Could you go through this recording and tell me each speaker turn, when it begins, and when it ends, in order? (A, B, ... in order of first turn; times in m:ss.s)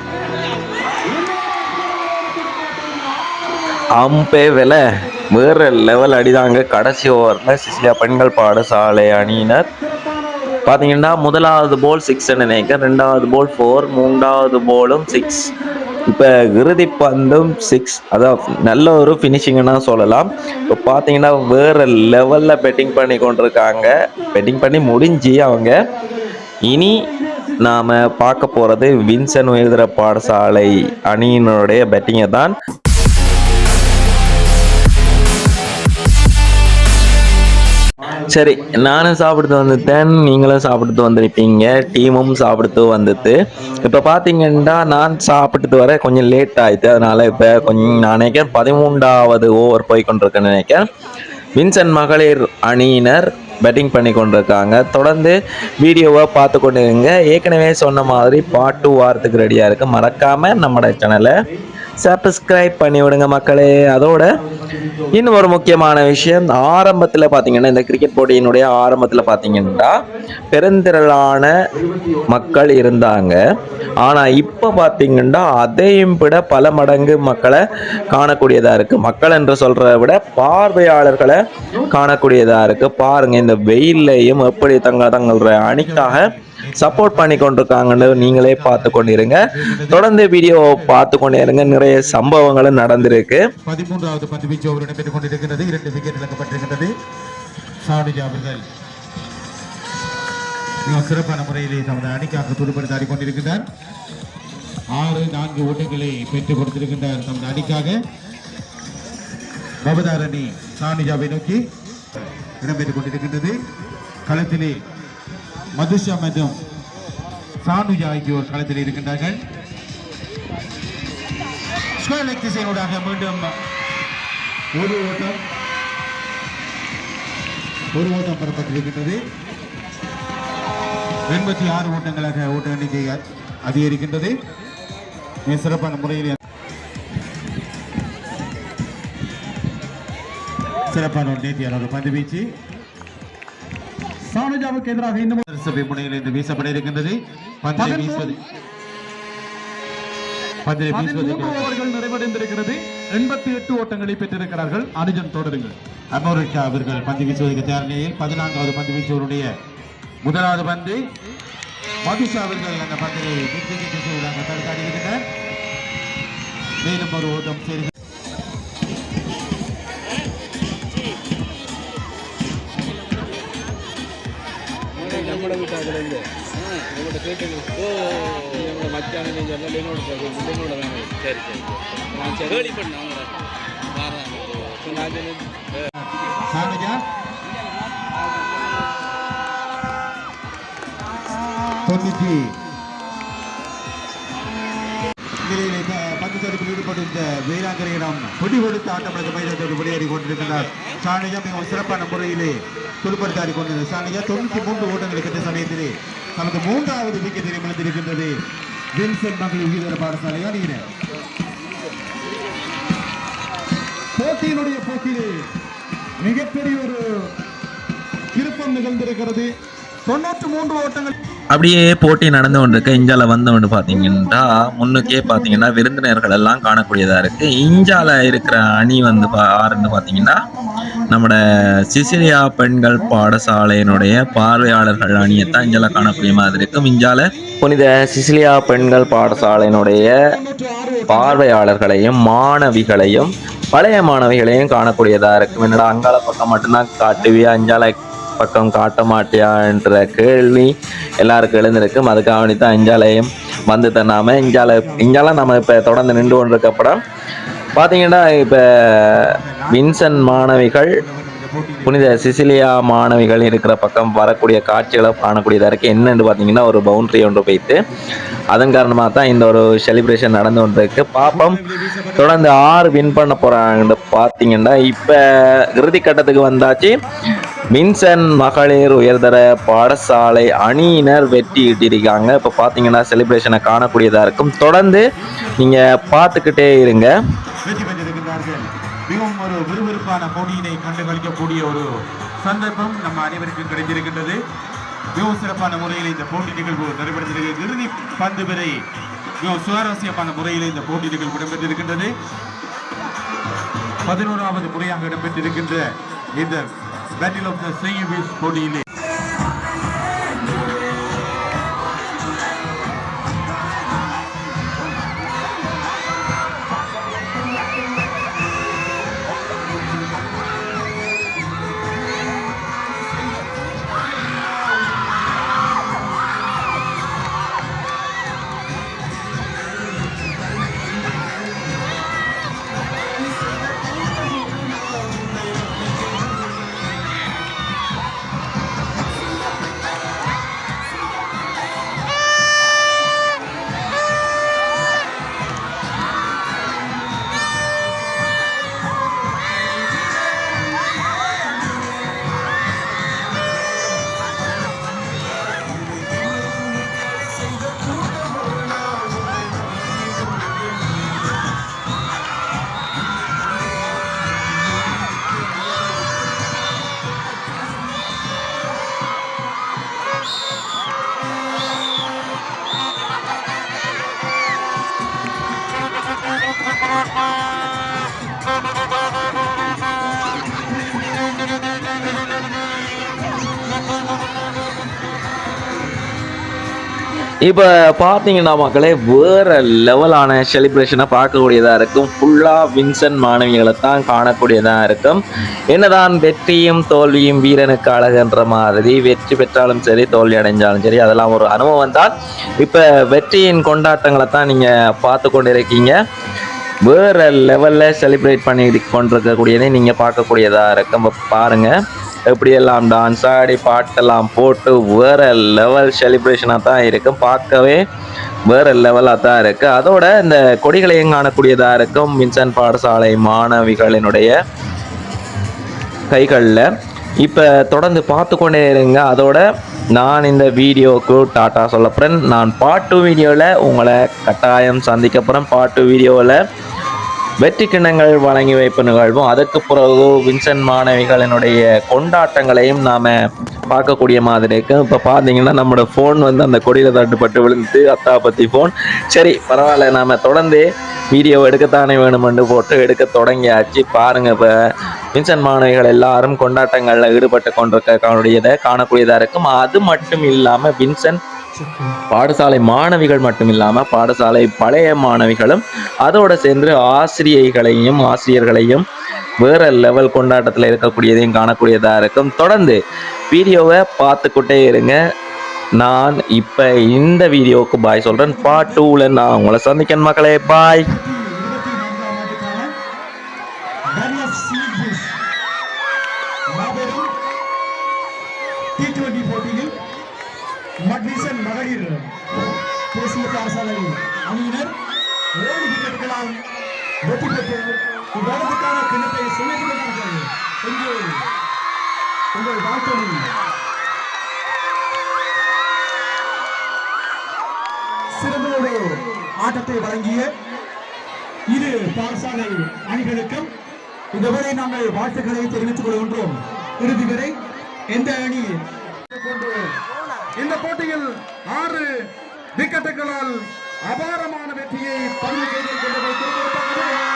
0:01.1-0:05.3 A
0:04.0-0:09.6 B
0:09.7-0:10.7 A
0:10.7-0:15.5 B
0:13.9-0:17.7 A
0:16.1-0:25.7 B
0:20.0-0:21.1 A
0:22.1-0:29.0 A
0:26.6-0:27.0 B
0:27.6-0:32.5 B
0:30.4-0:31.0 A
0:38.0-0:40.2 C
0:38.3-0:50.8 B
0:41.7-0:44.0 C
0:44.5-0:45.2 C
0:46.9-0:49.2 C
0:51.6-1:01.3 B
0:58.0-1:01.6 C
1:02.0-1:04.2 B
1:04.2-1:06.2 C
1:05.1-1:10.0 B
1:09.3-1:10.1 A
1:10.5-1:11.5 B
1:11.8-1:14.6 C
1:12.3-1:13.4 B
1:14.0-1:21.4 B
1:16.8-1:18.4 A
1:21.9-1:33.4 B
1:25.0-1:32.4 C
1:33.6-1:36.9 C
1:37.8-1:38.6 C
1:40.8-1:43.6 C
1:44.9-1:48.0 C
1:49.8-1:51.6 C
1:52.6-1:53.6 C
1:54.3-1:54.8 C
1:55.8-1:56.6 C
1:57.6-1:59.4 C
2:02.0-2:03.5 C
2:04.7-2:05.4 C
2:07.9-2:09.2 C
2:11.3-2:14.3 C
2:15.4-2:16.4 C
2:20.9-2:22.5 C
2:24.3-2:25.4 A
2:25.5-2:28.4 C
2:27.8-2:28.4 A
2:30.6-2:31.7 C
2:30.9-2:35.7 A
2:36.1-2:39.5 C
2:40.2-2:41.0 C
2:42.1-2:45.2 C
2:46.8-2:47.9 C
2:55.0-3:03.3 D
3:03.9-3:05.5 D
3:06.0-3:07.0 C
3:11.8-3:12.5 C
3:15.4-3:28.3 C
3:29.0-3:30.9 C
3:34.2-3:35.4 A
3:36.2-3:37.0 A
3:38.3-3:39.4 A
3:40.0-3:41.1 A
3:41.5-3:50.4 B
3:43.9-3:45.7 A
3:48.0-3:51.2 A
3:51.1-4:00.1 B
3:51.7-3:52.3 A
3:52.9-3:56.8 A
3:58.7-4:01.4 A
4:01.1-4:17.0 B
4:14.4-4:16.0 C
4:17.8-4:21.0 B
4:19.1-4:22.4 C
4:21.9-4:27.8 B
4:28.5-4:31.6 B
4:31.2-4:33.4 C
4:32.2-4:35.2 B
4:35.7-4:37.0 B
4:37.0-4:38.4 A
4:37.7-4:45.0 B
4:41.2-4:42.5 C
4:45.1-4:46.4 C
4:45.6-4:47.1 B
4:47.6-4:51.9 C
4:52.4-4:54.4 C
4:55.2-4:58.8 C
4:59.4-5:02.1 C
5:04.0-5:06.7 C
5:07.2-5:08.8 C
6:27.4-6:35.2 B
6:35.7-6:46.0 B
6:46.9-6:51.7 B
6:52.3-6:57.8 B
6:58.5-7:04.3 B
7:06.1-7:06.6 B
7:07.2-7:09.4 B
7:09.9-7:16.4 B
7:17.4-7:23.1 B
7:23.7-7:34.5 B
7:35.1-7:41.2 B
7:41.6-7:42.0 A
7:42.1-7:48.8 B
7:49.4-7:52.8 B
7:53.3-7:55.0 B
7:55.8-8:00.8 B
7:58.2-7:58.8 A
8:00.6-8:02.7 A
8:04.0-8:05.1 A
8:06.5-8:07.1 A
8:08.8-8:09.7 A
8:10.9-8:12.1 A
8:12.9-8:14.7 A
8:15.4-8:16.4 A
8:17.0-8:21.2 A
8:22.3-8:23.3 A
8:28.2-8:30.3 A
8:31.5-8:33.5 A
8:34.1-8:37.3 A
8:37.9-8:39.6 A
8:40.4-8:41.9 A
8:42.6-8:47.0 A